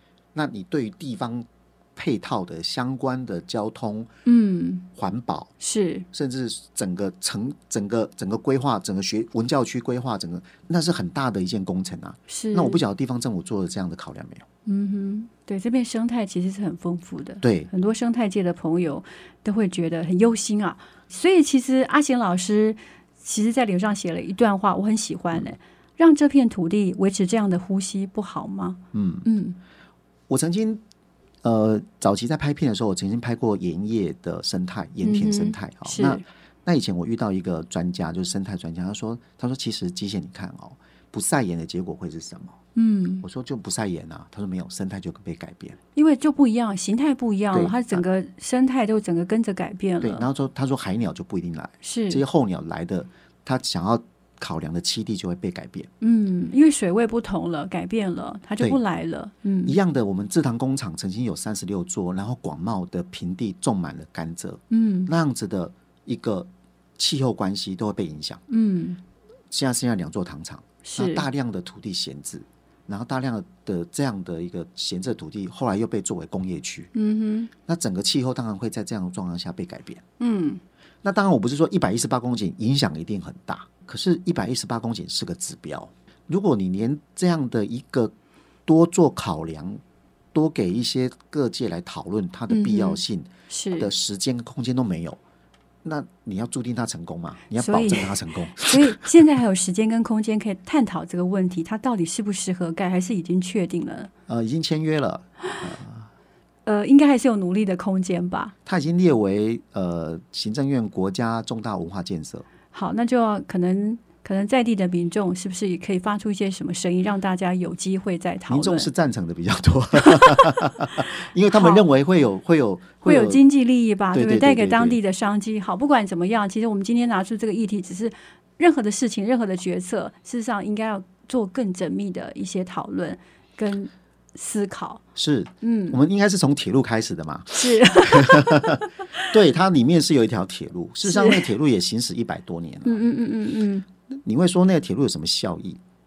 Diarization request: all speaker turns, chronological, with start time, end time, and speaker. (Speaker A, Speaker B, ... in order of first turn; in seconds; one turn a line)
Speaker A: 0.3-4.1
Speaker B: 4.3-4.9
Speaker A: 5.0-5.5
Speaker B: 5.6-6.1
Speaker A: 6.1-14.5
Speaker B: 12.3-12.8
Speaker B: 14.7-29.6
Speaker A: 17.4-17.7
Speaker A: 28.9-29.3
Speaker A: 30.3-30.8
Speaker A: 31.4-42.6
Speaker B: 35.0-36.2
Speaker B: 42.8-43.3
Speaker A: 43.2-45.8
Speaker B: 46.0-50.3
Speaker A: 47.5-48.0
Speaker A: 50.0-55.9
Speaker B: 51.8-52.2
Speaker B: 56.0-59.8
Speaker A: 59.7-68.4
Speaker B: 64.7-65.1
Speaker B: 68.5-69.0
Speaker A: 69.5-76.9
Speaker B: 70.8-71.2
Speaker B: 76.9-77.5
Speaker A: 77.7-80.0
Speaker B: 80.2-80.6
Speaker A: 81.0-88.1
Speaker A: 88.7-89.8
Speaker A: 90.3-95.2
Speaker B: 92.5-93.0
Speaker B: 93.5-93.9
Speaker A: 95.8-99.2
Speaker B: 97.5-104.1
Speaker A: 104.3-106.1
Speaker B: 106.7-108.5
Speaker A: 108.7-112.5
Speaker B: 112.7-118.9
Speaker A: 118.5-123.4
Speaker B: 120.0-120.8
Speaker B: 121.5-121.8
Speaker B: 123.0-135.0
Speaker A: 124.1-125.0
Speaker A: 135.2-143.1
Speaker B: 135.6-136.0
Speaker B: 137.5-139.3
Speaker B: 141.1-141.5
Speaker B: 142.8-143.9
Speaker A: 144.1-145.8